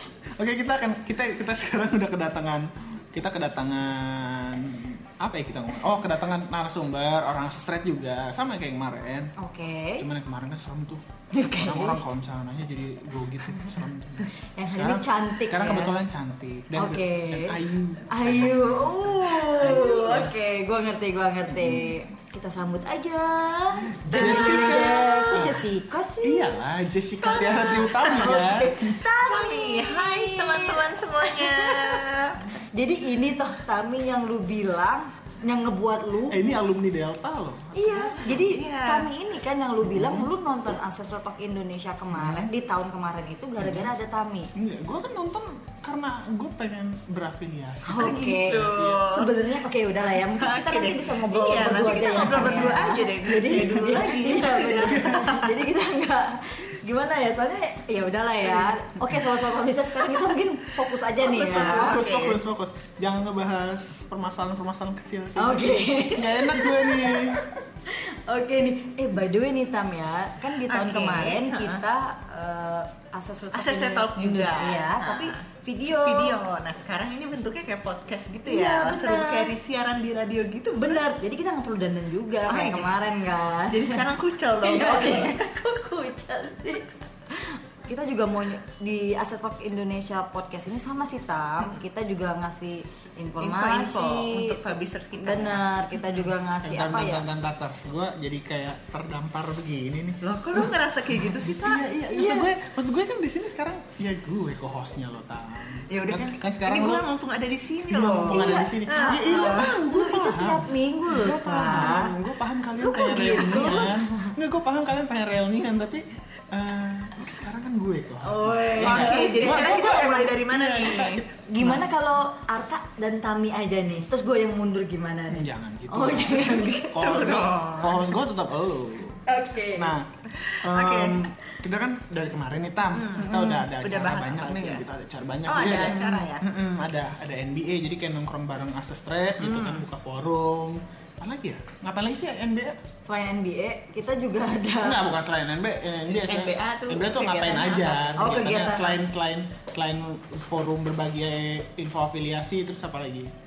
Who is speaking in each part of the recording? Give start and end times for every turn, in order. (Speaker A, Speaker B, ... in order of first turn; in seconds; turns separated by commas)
Speaker A: 0.3-9.3, Speaker B: 9.4-10.1, Speaker A: 10.0-20.3, Speaker B: 11.3-12.0, Speaker B: 14.5-15.9, Speaker B: 16.8-26.6, Speaker A: 21.4-21.9, Speaker A: 23.9-25.7, Speaker C: 24.1-25.5, Speaker A: 26.2-29.0, Speaker C: 27.3-28.4, Speaker B: 27.3-32.0, Speaker C: 29.2-32.5, Speaker B: 32.7-36.4, Speaker A: 36.3-38.0, Speaker B: 37.7-44.5, Speaker C: 37.9-39.1, Speaker A: 39.8-40.3, Speaker A: 42.1-42.5, Speaker A: 43.6-43.9, Speaker A: 44.5-49.0, Speaker B: 47.8-62.0, Speaker C: 47.9-49.3, Speaker C: 50.2-55.6, Speaker A: 54.8-55.3, Speaker A: 59.0-59.3, Speaker C: 61.2-62.4, Speaker A: 61.3-67.4, Speaker B: 65.4-76.4, Speaker C: 70.7-71.8, Speaker C: 73.5-81.0, Speaker B: 78.5-79.5, Speaker B: 80.8-84.0, Speaker C: 82.5-82.9, Speaker C: 83.7-85.4, Speaker B: 84.6-94.6, Speaker C: 93.4-95.7, Speaker B: 95.2-97.2, Speaker A: 96.6-100.7, Speaker C: 100.2-101.9, Speaker A: 101.5-107.1, Speaker B: 102.1-102.5, Speaker C: 105.9-109.8, Speaker A: 107.9-121.8, Speaker B: 108.3-112.1, Speaker C: 111.2-112.1, Speaker B: 112.8-114.3, Speaker C: 113.5-113.8, Speaker C: 118.3-121.2, Speaker B: 118.5-119.8, Speaker B: 121.5-127.0, Speaker A: 125.3-129.2, Speaker C: 126.5-128.2, Speaker B: 129.3-129.9, Speaker A: 129.7-130.1, Speaker C: 130.3-131.3, Speaker A: 130.6-142.8, Speaker C: 132.9-134.8, Speaker B: 133.2-133.6, Speaker C: 135.5-136.4, Speaker B: 135.8-136.3, Speaker C: 139.4-139.8, Speaker B: 143.0-145.0, Speaker A: 144.8-153.3, Speaker C: 146.1-148.7, Speaker B: 148.2-149.0